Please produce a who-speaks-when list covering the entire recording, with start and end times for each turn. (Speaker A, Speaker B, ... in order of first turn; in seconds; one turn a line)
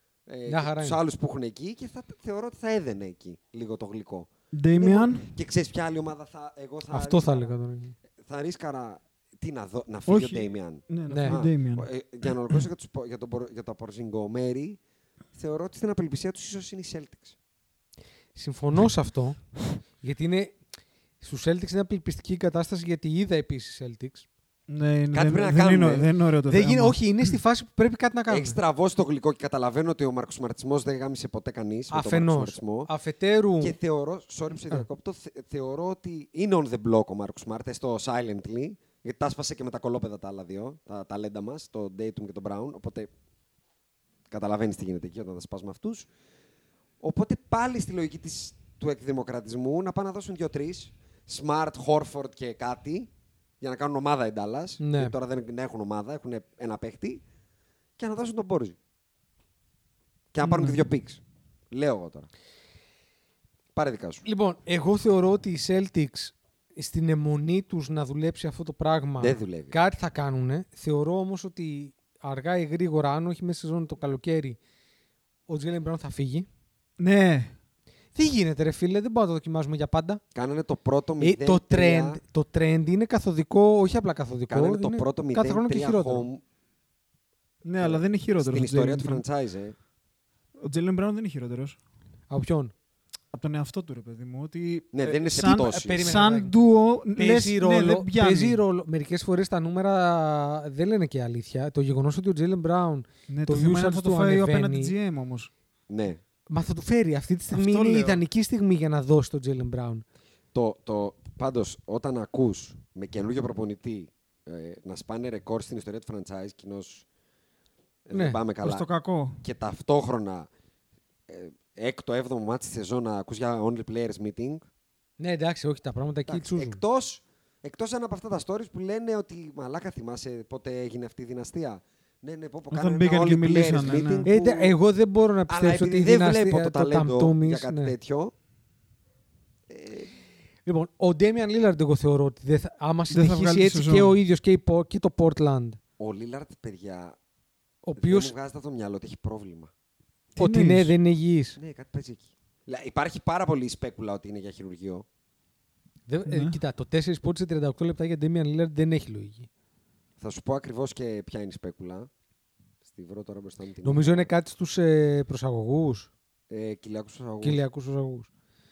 Speaker A: 0.3-7.5
Speaker B: 0.5-1.0
Speaker C: 4.5-5.3
Speaker B: 6.9-8.0
Speaker A: 8.2-14.8
Speaker C: 10.1-11.9
Speaker B: 11.1-11.4
Speaker A: 15.3-17.4
Speaker B: 18.4-19.4
Speaker B: 20.0-20.6
Speaker B: 21.2-24.3
Speaker C: 24.7-27.4
Speaker A: 25.1-26.1
Speaker B: 26.5-28.6
Speaker A: 28.3-32.9
Speaker B: 31.9-33.8
Speaker A: 33.6-43.1
Speaker A: 44.3-46.1
Speaker A: 47.0-53.1
Speaker A: 53.6-57.2
Speaker B: 54.8-55.1
Speaker A: 58.0-58.8
Speaker A: 60.3-61.2
Speaker C: 60.4-60.8
Speaker A: 61.7-62.3
Speaker A: 63.7-64.2
Speaker B: 64.2-74.6
Speaker A: 69.2-69.8
Speaker B: 75.5-76.5
Speaker C: 77.0-77.5
Speaker B: 78.1-80.2
Speaker A: 80.3-82.2
Speaker B: 81.2-86.3
Speaker A: 84.5-86.4
Speaker C: 87.6-89.2
Speaker A: 87.8-89.8
Speaker C: 90.6-91.8
Speaker B: 92.3-92.7
Speaker C: 93.3-98.6
Speaker A: 94.9-96.2
Speaker B: 95.4-96.5
Speaker B: 97.2-104.9
Speaker C: 103.3-105.5
Speaker A: 105.9-106.2
Speaker B: 106.5-110.0
Speaker C: 107.5-108.2
Speaker A: 110.5-117.0
Speaker A: 118.1-118.9
Speaker B: 118.1-118.4
Speaker C: 118.6-119.4
Speaker A: 119.4-120.5
Speaker A: 121.3-124.6
Speaker B: 125.2-126.8
Speaker A: 126.3-134.7
Speaker C: 132.7-134.3
Speaker B: 134.2-137.9
Speaker A: 135.5-138.3
Speaker A: 139.7-140.1
Speaker B: 140.7-145.8
Speaker C: 143.1-144.2
Speaker A: 146.0-147.2
Speaker B: 147.8-148.3
Speaker A: 148.0-149.7
Speaker C: 150.3-150.9
Speaker B: 150.4-151.6
Speaker A: 151.6-155.1
Speaker B: 156.1-159.5
Speaker C: 156.2-156.6
Speaker A: 160.2-162.1
Speaker A: 162.8-164.3
Speaker B: 163.8-166.1
Speaker A: 166.5-167.6
Speaker B: 167.4-168.3